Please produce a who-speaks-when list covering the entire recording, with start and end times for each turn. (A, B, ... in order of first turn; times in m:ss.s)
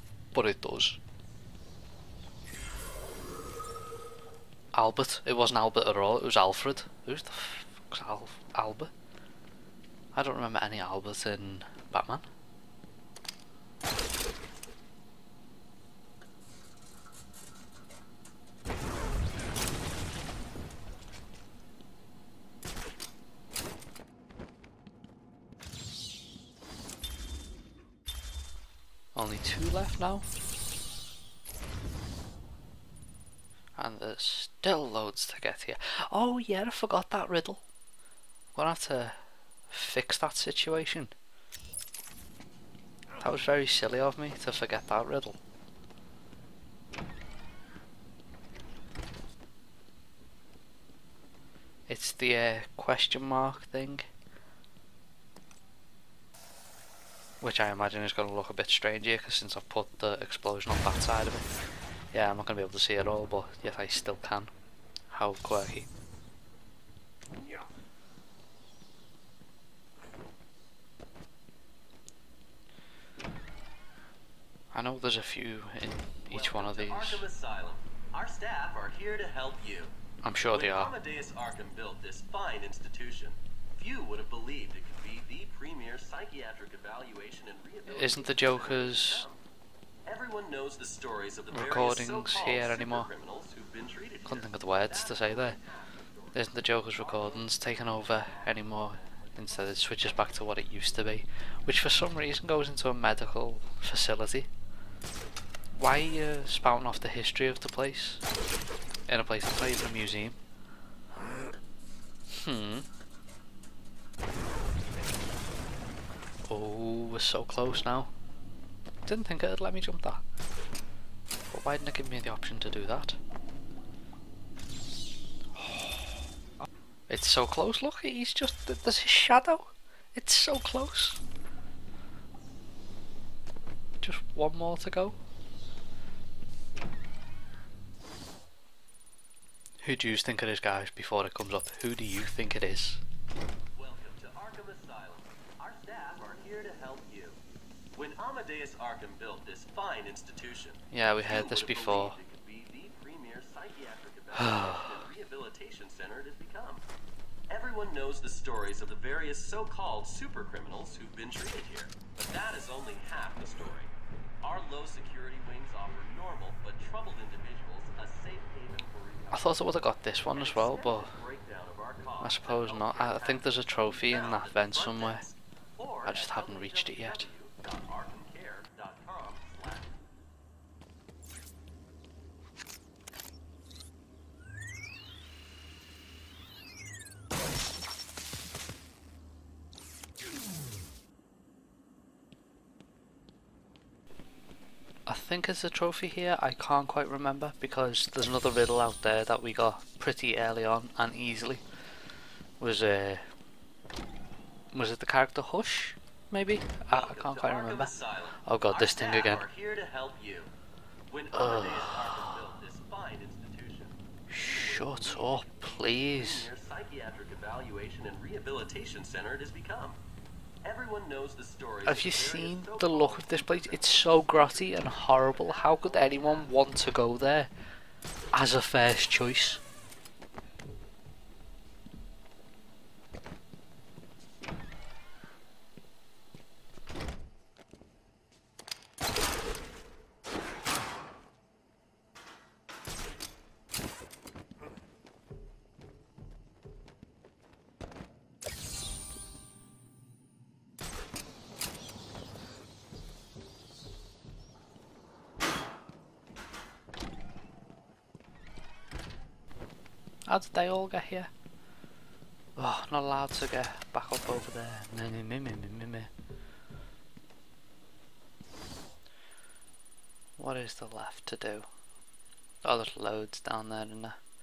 0:00.3-0:01.0 A
0:04.7-0:08.9 A
0:10.1-0:12.3 A
0:29.1-0:30.3 A
0:33.8-0:37.6 A
0:38.6-0:41.1 A
0:43.2-0:45.4 A
0:51.9-0:54.1 A
0:57.4-1:04.5 A
1:05.1-1:05.9 A
1:14.7-1:17.2 A
1:16.3-1:19.9 B
1:20.2-1:20.9 A
1:20.5-1:29.4 B
1:27.9-1:29.3 A
1:30.1-1:40.2 B
1:31.5-1:33.1 A
1:34.3-1:35.6 A
1:36.3-1:44.5 A
1:45.7-1:48.2 A
1:49.1-1:50.4 A
1:52.3-1:52.9 A
1:56.5-1:58.1 A
1:59.0-2:00.2 A
2:01.5-2:03.2 A
2:05.6-2:06.0 A
2:07.1-2:11.2 A
2:14.0-2:15.2 A
2:19.8-2:23.0 A
2:23.7-2:27.4 B
2:27.9-2:36.8 B
2:30.9-2:32.2 A
2:34.4-2:35.0 A
2:37.5-2:43.9 B
2:44.4-2:49.7 B
2:49.3-2:51.1 A
2:50.3-3:00.0 B
2:52.2-2:55.2 A
2:56.0-2:57.3 A
3:15.1-3:21.6 A
3:22.6-3:23.2 A
3:24.7-3:27.9 A
3:26.9-3:30.5 B
3:28.4-3:29.4 A
3:31.1-3:40.0 B
3:31.3-3:32.2 A
3:34.3-3:36.5 A
3:40.6-3:46.8 B
3:41.9-3:47.5 A
3:48.3-3:49.6 A
4:20.3-4:21.3 A
4:22.6-4:26.1 A
4:30.4-4:31.7 A
4:32.6-4:34.2 A